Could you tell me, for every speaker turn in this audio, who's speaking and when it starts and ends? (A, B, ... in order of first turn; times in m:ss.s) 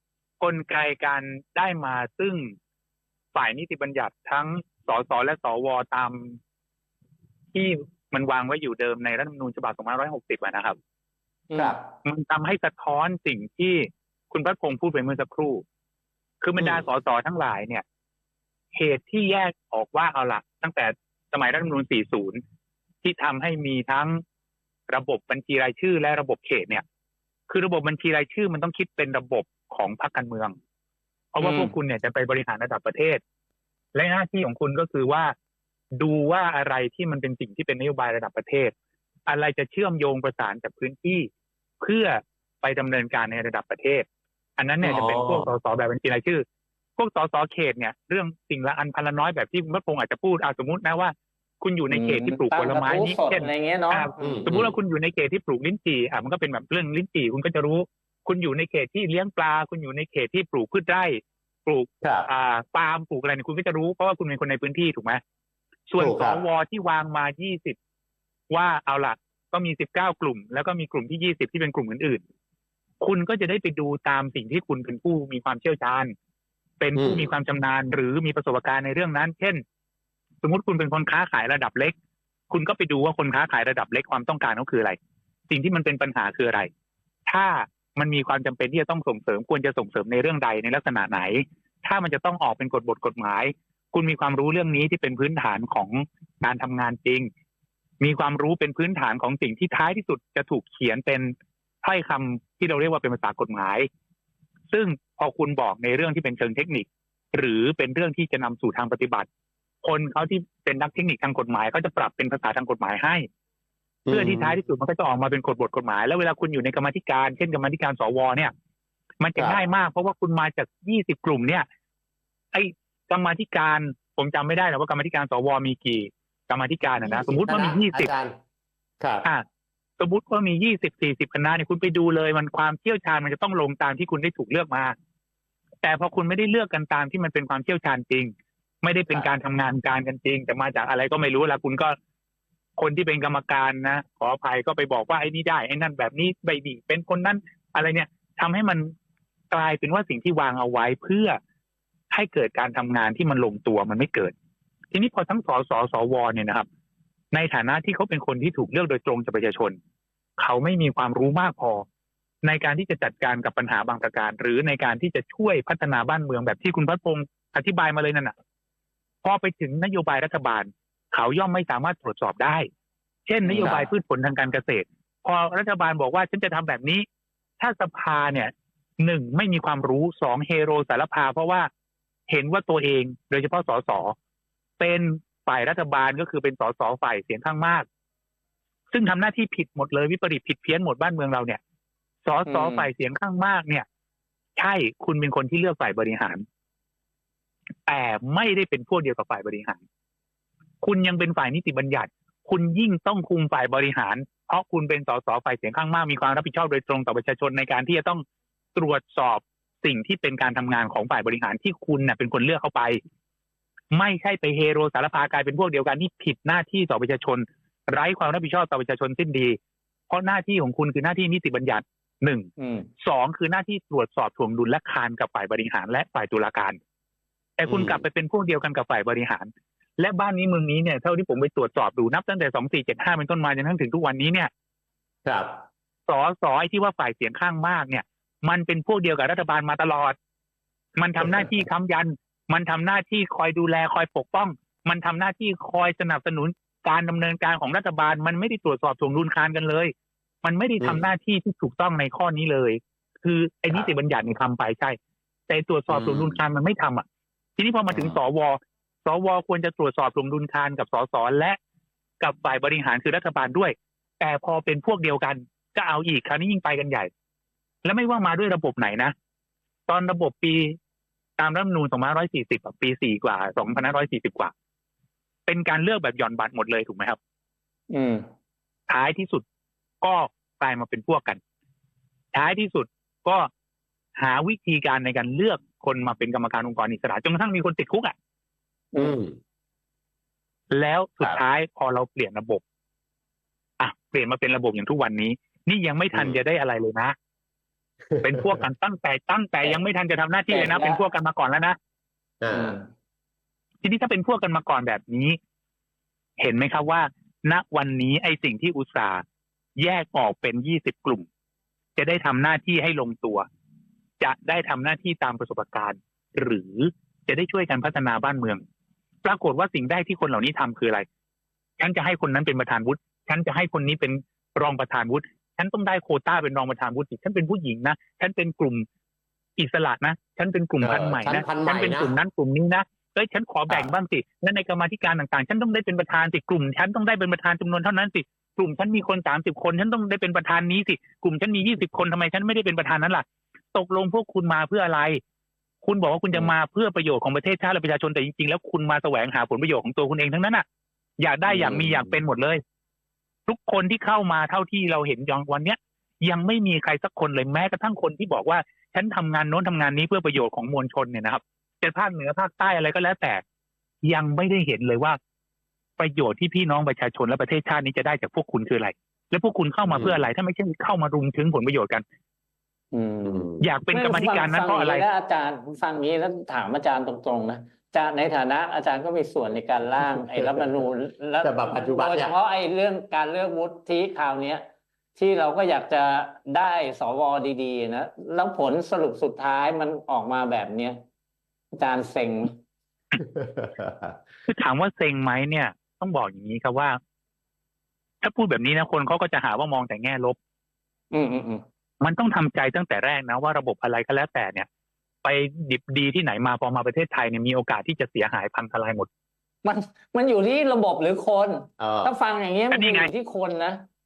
0:00.4-0:02.5 A
0:03.3-0:06.4 A
0:07.5-0:10.8 A
0:11.5-0:11.8 B
0:12.0-0:15.6 A
0:16.4-0:17.8 A
0:16.6-0:16.8 C
0:18.7-0:22.4 A
0:23.0-0:24.2 A
0:24.9-0:26.8 A
0:27.5-0:30.5 A
0:31.3-0:33.2 A
0:31.4-0:31.7 B
0:33.9-0:35.3 A
0:36.0-0:38.7 A
0:39.3-0:41.3 A
0:41.8-0:44.0 A
0:44.6-0:46.4 A
0:44.8-0:45.5 C
0:47.0-1:05.2 A
0:51.9-0:54.5 B
0:54.2-0:54.7 C
1:02.0-1:02.3 C
1:05.9-1:07.8 A
1:06.0-1:06.4 C
1:08.5-1:12.2 A
1:13.0-1:16.1 A
1:16.8-1:19.6 A
1:17.0-1:17.3 C
1:20.4-1:21.9 A
1:22.5-1:25.0 A
1:25.5-1:26.7 A
1:27.3-1:37.3 A
1:38.0-1:43.9 A
1:44.7-1:49.3 A
1:49.8-1:53.2 A
1:54.0-1:54.6 C
1:54.1-1:58.5 A
1:59.2-2:01.7 A
1:59.4-1:59.6 C
2:02.5-2:08.1 A
2:07.0-2:08.3 C
2:09.0-2:09.2 C
2:10.0-2:14.9 A
2:15.8-2:22.0 A
2:22.8-2:28.9 A
2:29.5-2:31.4 A
2:32.1-2:34.3 A
2:34.9-2:36.6 A
2:37.3-2:39.8 A
2:40.4-2:41.8 A
2:42.4-2:48.3 A
2:49.2-2:52.7 A
2:53.3-2:57.0 A
2:53.4-2:53.8 B
2:53.6-2:53.8 C
2:57.6-3:01.7 A
3:02.3-3:04.1 A
3:04.8-3:07.8 A
3:08.9-3:11.6 A
3:12.2-3:13.8 A
3:12.4-3:12.9 B
3:14.6-3:16.4 A
3:17.8-3:19.8 A
3:20.8-3:28.2 A
3:28.7-3:33.0 A
3:33.9-3:39.6 A
3:40.1-3:42.5 A
3:42.6-3:42.9 B
3:43.0-3:46.8 A
3:47.6-3:54.5 A
3:47.6-3:48.0 C
3:55.2-3:55.5 C
3:56.1-4:00.2 A
4:01.0-4:15.0 A
4:01.2-4:01.5 C
4:10.8-4:11.0 C
4:15.5-4:17.0 A
4:15.9-4:16.4 C
4:17.6-4:21.6 A
4:17.9-4:18.2 C
4:22.2-4:27.1 A
4:27.8-4:29.1 A
4:29.9-4:30.8 A
4:31.4-4:34.5 A
4:35.4-4:37.2 A
4:37.9-4:38.3 B
4:38.9-4:39.4 A
4:40.0-4:41.4 A
4:42.3-4:43.5 A
4:44.2-4:48.1 A
4:48.9-4:49.4 C
4:50.7-4:52.6 A
4:53.8-4:57.1 A
4:56.1-4:56.4 C
4:58.1-4:58.5 C
4:58.2-5:01.8 A
5:00.5-5:01.0 B
5:02.4-5:02.8 C
5:02.5-5:02.9 B
5:03.8-5:05.4 A
5:06.4-5:09.2 A
5:09.8-5:11.2 A
5:12.0-5:13.4 A
5:14.2-5:18.6 A
5:19.2-5:21.0 A
5:21.8-5:28.8 A
5:29.6-5:45.2 A
5:30.8-5:32.1 C
5:45.8-5:50.6 A
5:51.2-5:52.6 A
5:51.5-5:52.2 C
5:53.5-6:03.4 A
6:04.0-6:05.2 A
6:06.0-6:12.0 A
6:09.9-6:10.3 C
6:12.9-6:31.0 B
6:13.2-6:13.7 C
6:13.6-6:15.0 A
6:20.0-6:20.8 C
6:21.4-6:22.3 C
6:31.7-6:32.6 B
6:33.2-6:34.2 C
6:34.5-6:37.0 A
6:38.2-6:40.4 A
6:41.1-6:41.6 B
6:42.0-6:44.7 A
6:45.2-6:49.1 A
6:49.6-6:53.8 B
6:51.8-6:52.1 C
6:52.7-6:53.1 A